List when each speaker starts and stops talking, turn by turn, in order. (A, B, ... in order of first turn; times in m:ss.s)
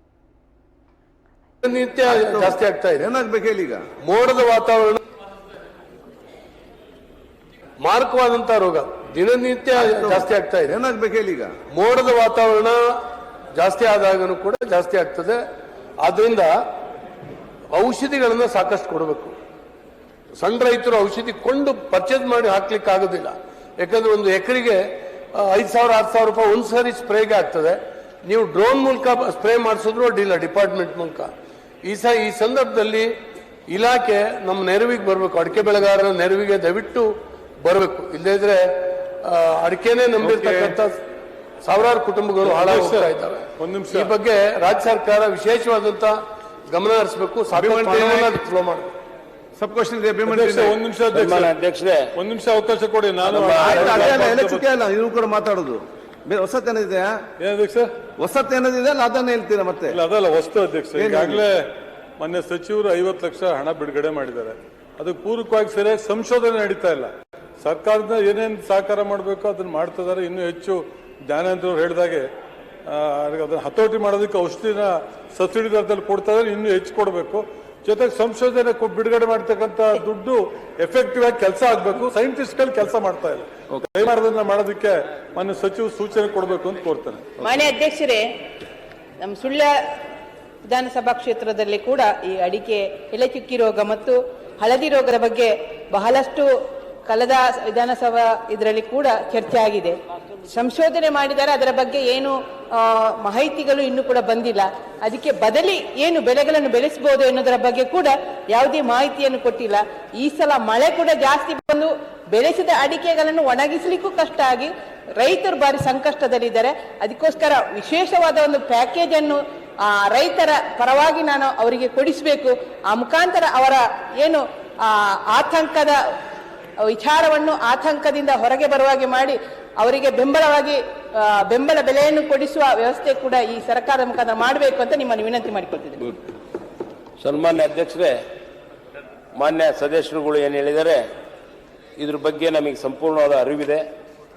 0:01.6-0:03.0 A
0:02.0-0:03.8 B
0:04.0-0:05.0 A
0:07.8-0:10.7 A
0:09.7-0:11.5 B
0:11.7-0:12.8 A
0:13.5-0:15.4 A
0:16.0-0:16.5 A
0:17.7-0:19.3 A
0:20.4-0:31.3 A
0:31.8-0:33.1 A
0:33.7-0:41.0 A
0:40.2-0:40.7 B
0:41.6-0:46.2 A
0:42.4-0:44.1 C
0:46.7-0:48.9 A
0:47.5-0:48.3 B
0:49.6-0:50.8 B
0:50.2-0:51.5 C
0:51.1-0:52.0 D
0:52.2-0:54.6 C
0:53.2-0:53.9 D
0:53.4-0:57.2 B
0:57.4-0:58.0 C
0:58.2-1:00.0 B
0:59.9-1:12.3 C
1:00.9-1:01.4 B
1:12.9-1:27.4 C
1:27.4-1:28.3 E
1:29.2-1:29.7 E
1:30.6-1:36.5 E
1:37.0-2:06.0 E
2:06.8-2:16.1 E
2:17.2-2:18.1 D
2:19.4-2:21.0 D
2:22.0-2:23.8 D